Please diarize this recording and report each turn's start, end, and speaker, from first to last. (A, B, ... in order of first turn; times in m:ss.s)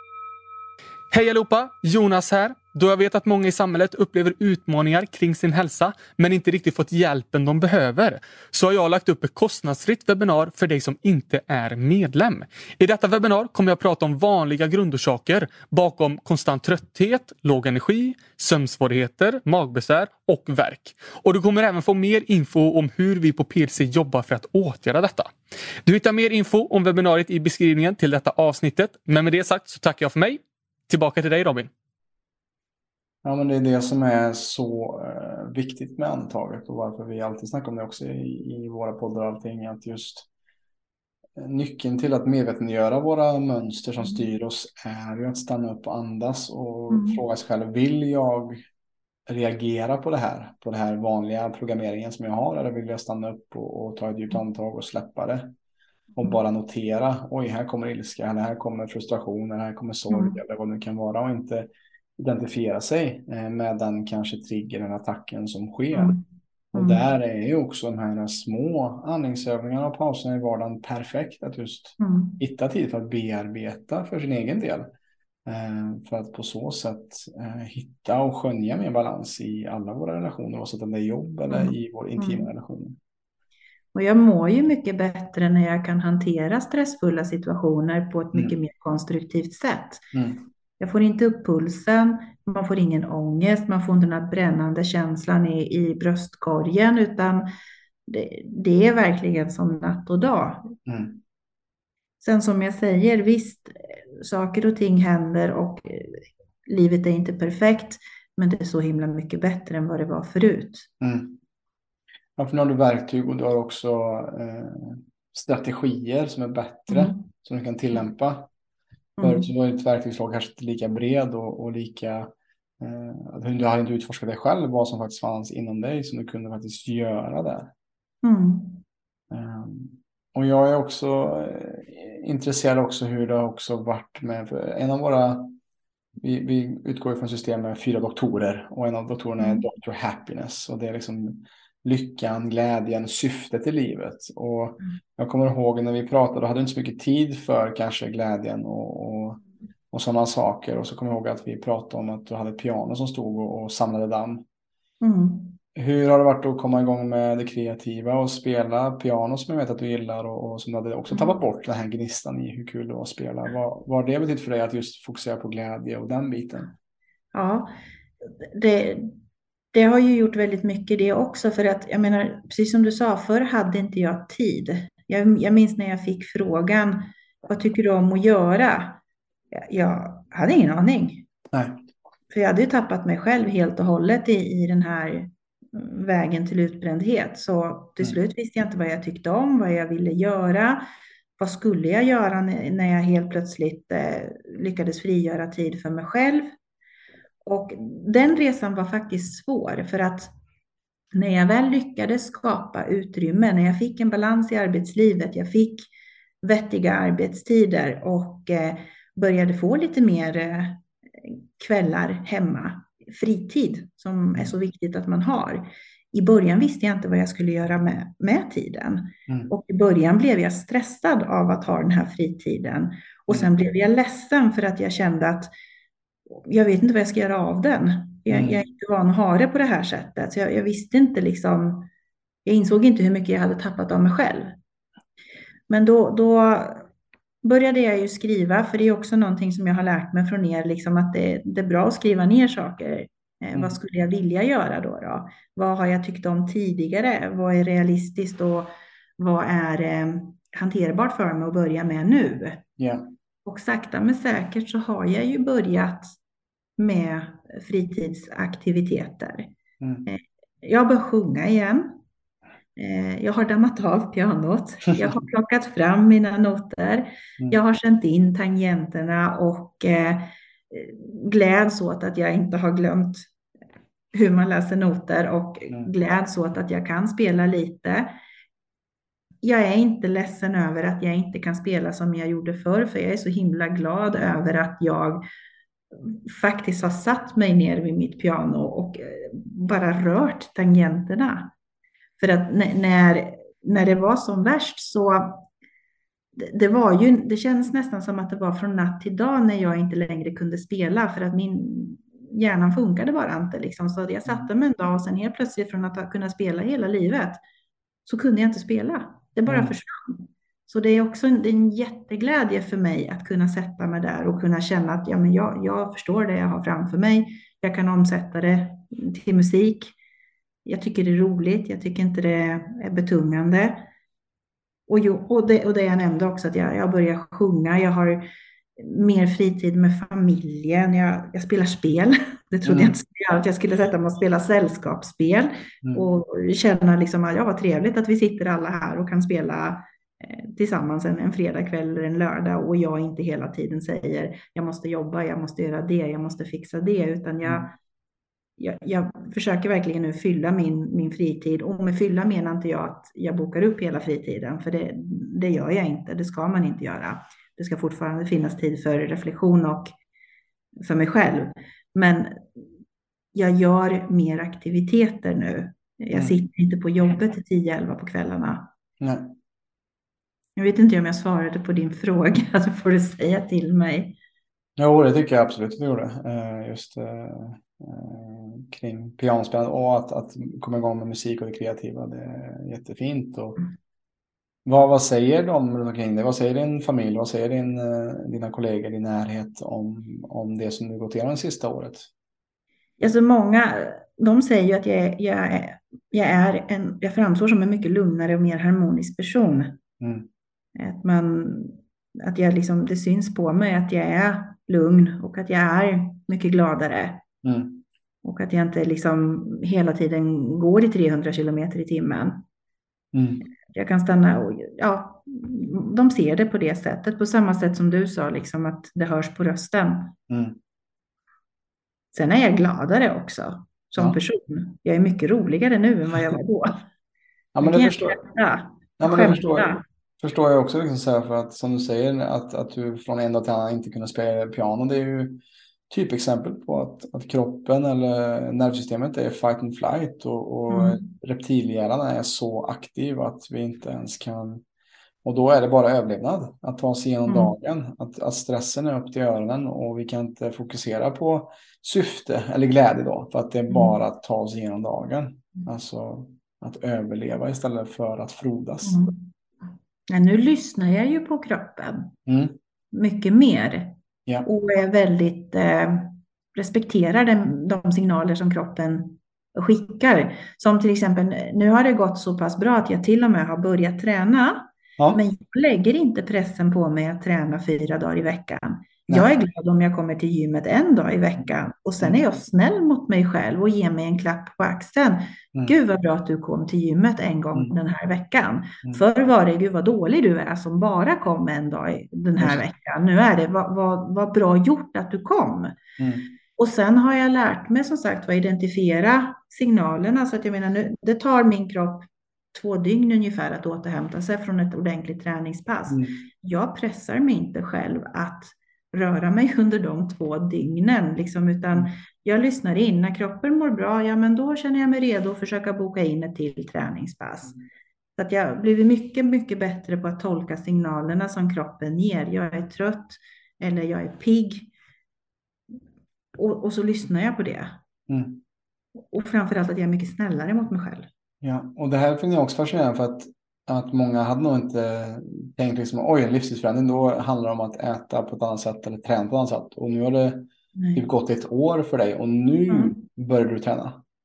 0:01.1-0:31.7 A
0:33.2-0:40.3 B
0:41.4-0:48.6 B
0:46.9-0:47.2 C
0:49.3-0:55.6 B
0:56.2-1:06.2 B
1:00.1-1:00.4 C
1:05.9-1:06.2 C
1:06.7-1:07.0 C
1:06.7-1:14.9 B
1:12.0-1:12.4 C
1:15.5-1:23.0 B
1:21.5-1:22.5 C
1:23.9-1:30.1 C
1:30.1-1:30.4 B
1:30.8-1:37.4 C
1:38.1-1:40.7 C
1:40.9-1:41.2 B
1:42.2-1:50.9 C
1:51.0-1:51.4 B
1:52.4-1:58.5 B
1:56.9-1:57.3 C
1:59.2-1:59.5 C
1:59.2-2:07.7 B
2:08.2-2:08.8 C
2:09.3-2:15.6 B
2:16.2-2:34.4 B
2:19.4-2:19.7 C
2:35.0-2:35.6 C
2:35.8-2:46.7 B
2:47.3-2:47.7 C
2:48.4-2:49.1 C
2:49.7-2:59.0 C
2:59.5-3:01.3 C
3:01.5-3:01.8 B
3:02.3-3:10.8 C
3:11.4-3:16.5 C
3:17.4-3:20.3 C
3:21.1-3:25.9 C
3:26.4-3:45.5 C
3:46.3-3:51.9 C
3:48.3-3:48.6 B
3:52.5-3:54.6 C
3:55.7-3:56.9 C
3:57.4-4:12.6 C
4:12.8-4:13.1 B
4:13.4-4:16.2 C
4:16.8-4:19.5 C
4:19.8-4:20.1 B
4:20.1-4:22.0 C
4:22.8-4:33.3 C
4:34.1-4:38.2 C
4:39.4-4:45.2 C
4:46.0-4:51.5 C
4:52.2-4:55.5 C
4:56.4-5:07.4 C
5:08.1-5:20.0 C
5:09.5-5:09.8 B
5:20.6-5:23.9 C
5:24.9-5:47.8 C
5:32.6-5:33.0 B
5:48.6-5:59.9 C
6:00.8-6:02.6 C
6:03.3-6:08.7 C
6:09.0-6:09.4 B
6:10.6-6:14.2 C
6:14.8-6:23.6 B
6:24.7-6:32.1 B
6:33.0-6:39.8 C
6:40.0-6:40.3 B
6:40.8-6:47.2 C
6:47.4-6:47.8 B
6:48.2-6:52.4 C
6:53.1-6:53.4 B
6:53.7-7:00.2 C
7:00.3-7:00.6 B
7:02.1-7:06.8 C
7:07.6-7:08.2 B
7:07.6-7:09.8 C
7:09.0-7:24.6 B
7:20.7-7:21.0 C
7:25.2-7:39.0 B
7:27.3-7:27.5 C
7:33.7-7:34.0 C
7:38.8-7:39.2 C
7:40.1-7:42.1 C
7:42.3-7:42.6 B
7:42.9-8:15.8 C
8:16.0-8:16.3 B
8:16.6-8:37.6 C
8:25.9-8:26.2 B
8:38.2-8:44.7 C
8:46.4-8:47.8 C
8:48.1-8:48.4 B
8:49.1-8:51.1 C
8:51.4-9:04.0 B
9:00.8-9:01.0 C
9:02.7-9:03.0 C